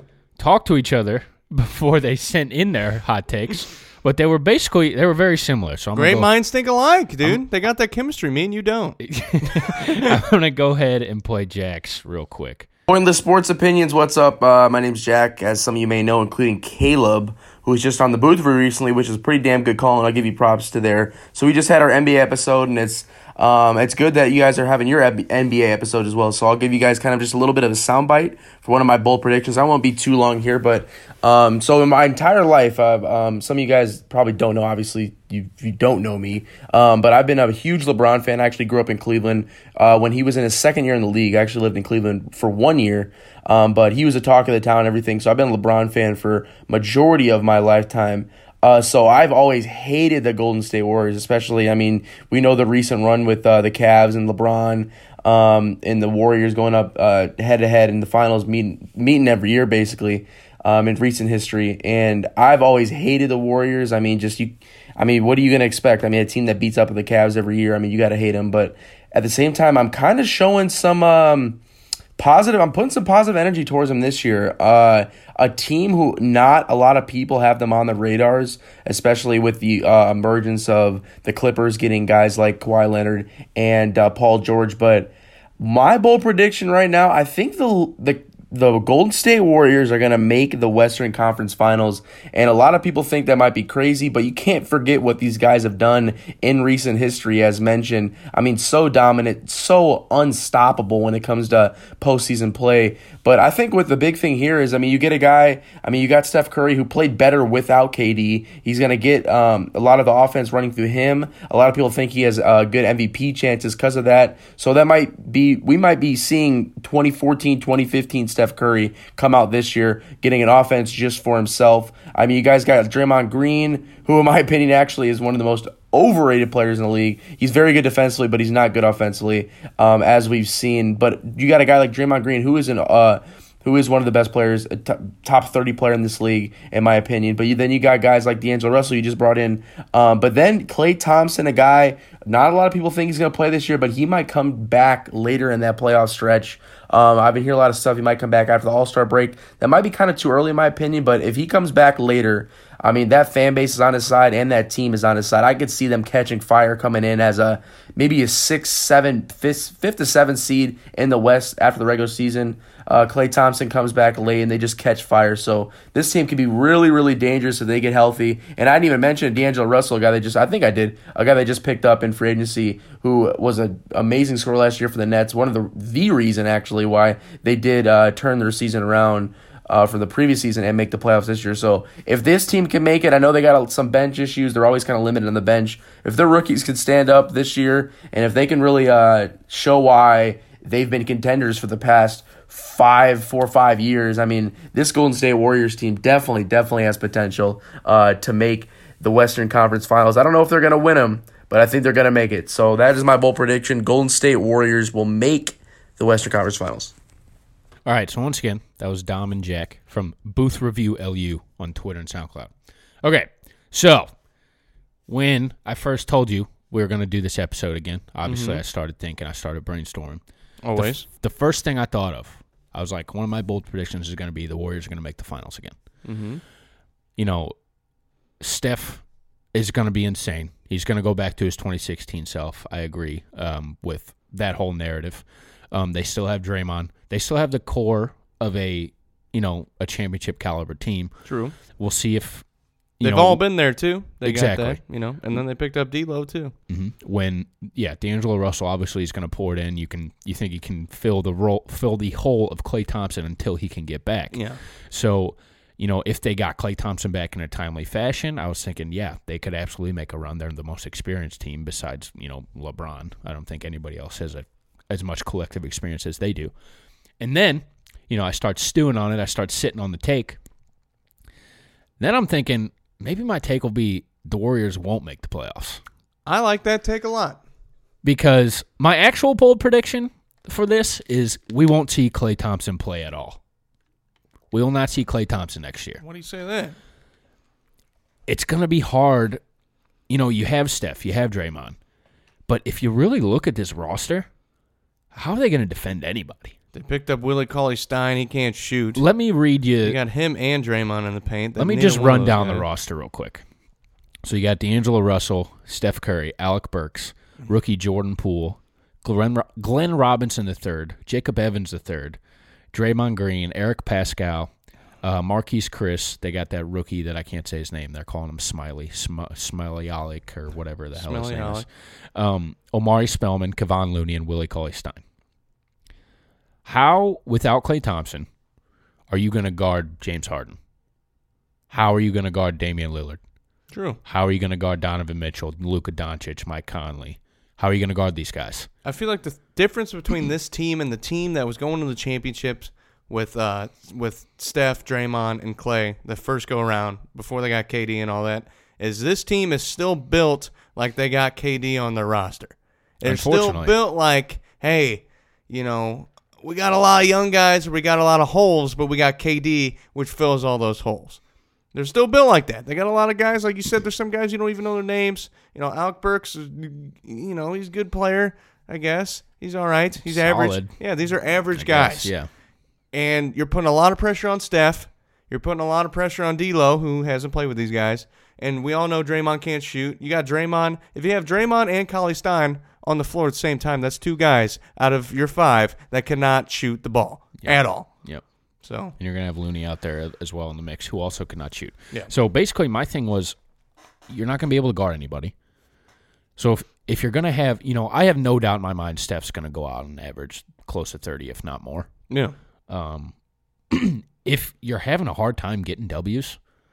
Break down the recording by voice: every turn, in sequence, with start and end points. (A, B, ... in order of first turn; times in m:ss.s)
0:00.4-0:06.3 A
0:05.9-0:09.0 B
0:09.0-0:12.7 A
0:09.5-0:10.2 B
0:12.9-1:11.6 C
1:12.2-3:26.9 C
3:27.8-3:32.5 A
3:33.0-3:34.1 A
3:35.1-3:40.2 A
3:38.2-3:38.6 B
3:40.6-3:41.0 B
3:40.8-3:45.7 A
3:46.0-3:46.4 B
3:47.2-3:47.5 A
3:48.4-4:01.2 A
4:01.2-4:01.6 B
4:01.7-4:02.4 A
4:03.0-4:03.4 A
4:03.0-4:06.5 B
4:04.2-4:04.8 A
4:06.7-4:26.5 A
4:14.3-4:14.6 B
4:27.2-4:30.4 A
4:32.0-4:35.8 A
4:36.2-4:37.4 B
4:38.0-4:43.4 A
4:44.5-4:46.0 A
4:46.0-4:46.8 B
4:48.3-4:49.4 A
4:50.1-4:51.8 A
4:52.5-4:54.3 A
4:55.1-4:56.5 A
4:56.7-4:59.0 B
4:59.0-5:00.0 A
4:59.8-5:02.7 B
5:01.6-5:03.4 A
5:04.2-5:12.2 A
5:12.7-5:14.5 A
5:15.0-5:25.0 A
5:20.9-5:21.6 B
5:26.6-5:28.3 A
5:29.1-5:30.6 A
5:31.7-5:33.2 A
5:33.7-5:34.0 B
5:34.0-5:38.7 A
5:38.8-6:01.2 B
5:53.0-5:53.7 A
6:01.7-6:12.1 B
6:10.0-6:12.3 A
6:12.9-6:27.9 B
6:27.4-6:28.2 A
6:28.6-6:28.9 B
6:29.0-6:33.4 A
6:34.1-6:35.3 A
6:36.4-6:41.9 A
6:42.1-6:42.3 B
6:42.7-6:43.1 A
6:43.7-6:46.4 A